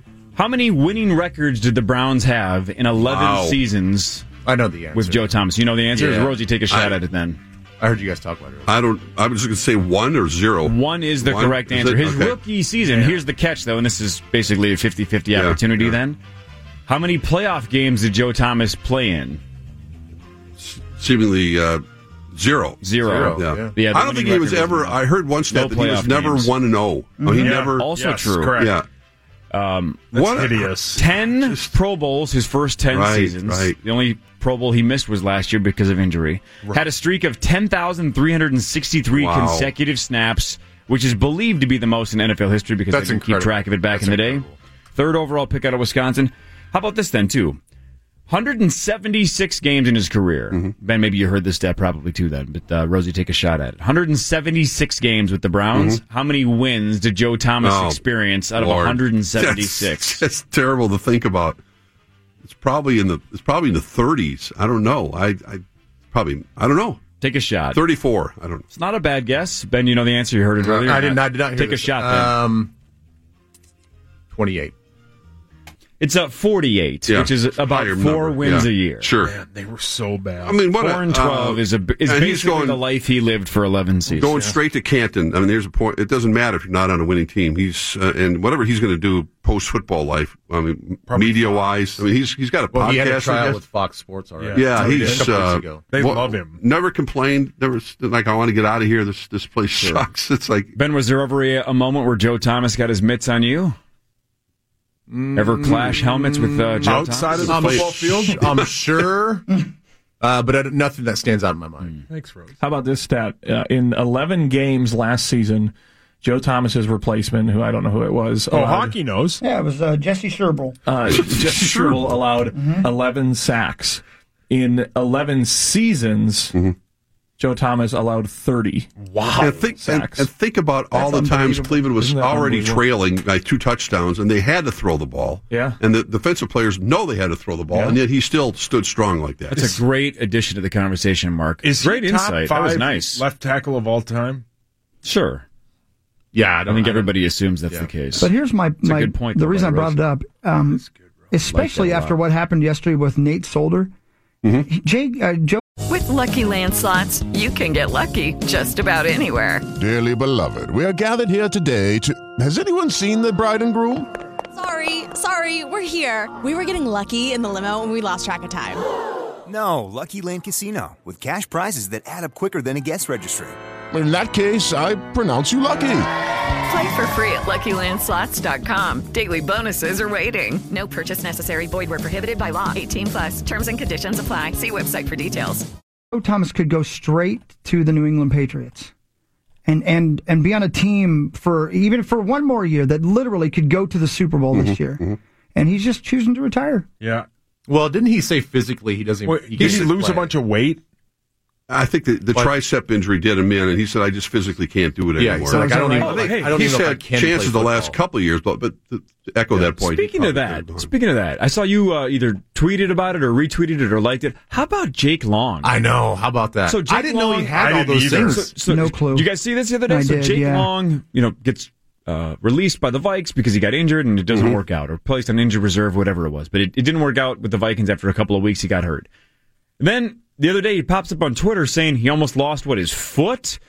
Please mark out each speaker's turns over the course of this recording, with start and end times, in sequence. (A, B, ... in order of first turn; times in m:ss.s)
0:00.4-0:04.3 A
0:03.0-0:03.6 B
0:04.4-0:05.3 C
0:05.0-0:07.4 A
0:06.0-0:06.4 C
0:07.8-0:08.7 C
0:08.7-0:12.4 B
0:10.7-0:16.2 A
0:12.9-0:13.2 D
0:15.3-0:16.0 B
0:16.9-0:19.4 A
0:20.6-0:22.8 B
0:22.8-0:26.5 A
0:23.0-0:23.8 C
0:23.4-0:27.8 B
0:27.2-0:27.5 E
0:27.4-0:28.8 D
0:27.4-0:28.7 A
0:28.6-0:28.8 B
0:29.5-0:30.4 A
0:30.1-0:31.0 D
0:30.1-0:30.6 B
0:30.9-0:47.6 A
0:31.4-0:31.7 B
0:32.9-0:33.8 B
0:39.1-0:39.7 B
0:42.9-0:44.6 C
0:48.3-1:00.2 A
0:55.7-0:56.0 B
0:57.6-0:58.0 B
0:58.6-1:01.6 B
1:02.4-1:07.0 B
1:07.2-1:07.8 A
1:07.7-1:08.6 B
1:08.7-1:12.4 A
1:10.6-1:12.7 C
1:14.3-1:14.7 C
1:16.0-1:19.1 A
1:17.1-1:19.3 B
1:19.2-1:20.7 D
1:20.4-1:22.8 B
1:20.8-1:24.4 A
1:24.2-1:24.6 D
1:24.2-1:33.6 B
1:31.1-1:32.0 D
1:32.7-1:35.9 C
1:34.4-1:36.6 D
1:34.6-1:40.7 B
1:40.8-1:43.8 A
1:45.1-1:46.9 C
1:45.4-1:47.7 A
1:46.8-1:48.4 D
1:47.5-1:49.5 C
1:50.2-1:52.0 C
1:52.1-1:52.6 D
1:52.6-1:59.0 F
1:58.5-1:59.4 D
1:59.4-2:00.8 E
2:00.9-2:06.5 F
2:01.2-2:02.1 B
2:02.5-2:02.9 E
2:07.4-2:10.3 F
2:09.0-2:09.6 D
2:09.4-2:19.6 B
2:10.9-2:11.8 E
2:11.9-2:12.8 F
2:15.5-2:15.8 F
2:17.7-2:18.0 F
2:19.5-2:23.2 A
2:21.6-2:24.4 D
2:25.0-2:25.4 A
2:26.3-2:27.1 C
2:26.7-2:28.3 A
2:28.2-2:33.9 E
2:28.8-2:30.0 A
2:31.5-2:32.2 A
2:34.7-2:35.6 E
2:35.9-2:39.7 G
2:39.8-2:44.1 H
2:44.5-2:48.8 I
2:49.5-2:53.6 J
2:53.9-2:56.1 H
2:56.7-3:05.7 G
3:06.1-3:08.9 E
3:09.7-3:15.0 E
3:14.5-3:15.2 B
3:15.6-3:16.9 E
3:17.0-3:17.3 D
3:17.7-3:20.3 C
3:19.3-3:20.8 D
3:21.7-3:30.9 B
3:22.3-3:22.6 C
3:25.2-3:28.0 C
3:25.5-3:26.3 E
3:26.0-3:26.7 A
3:29.6-3:35.7 A
3:35.6-3:38.5 C
3:36.7-3:37.6 A
3:37.6-3:38.4 D
3:38.2-3:49.1 A
3:38.6-3:39.3 E
3:39.9-3:40.7 E
3:49.8-3:53.6 A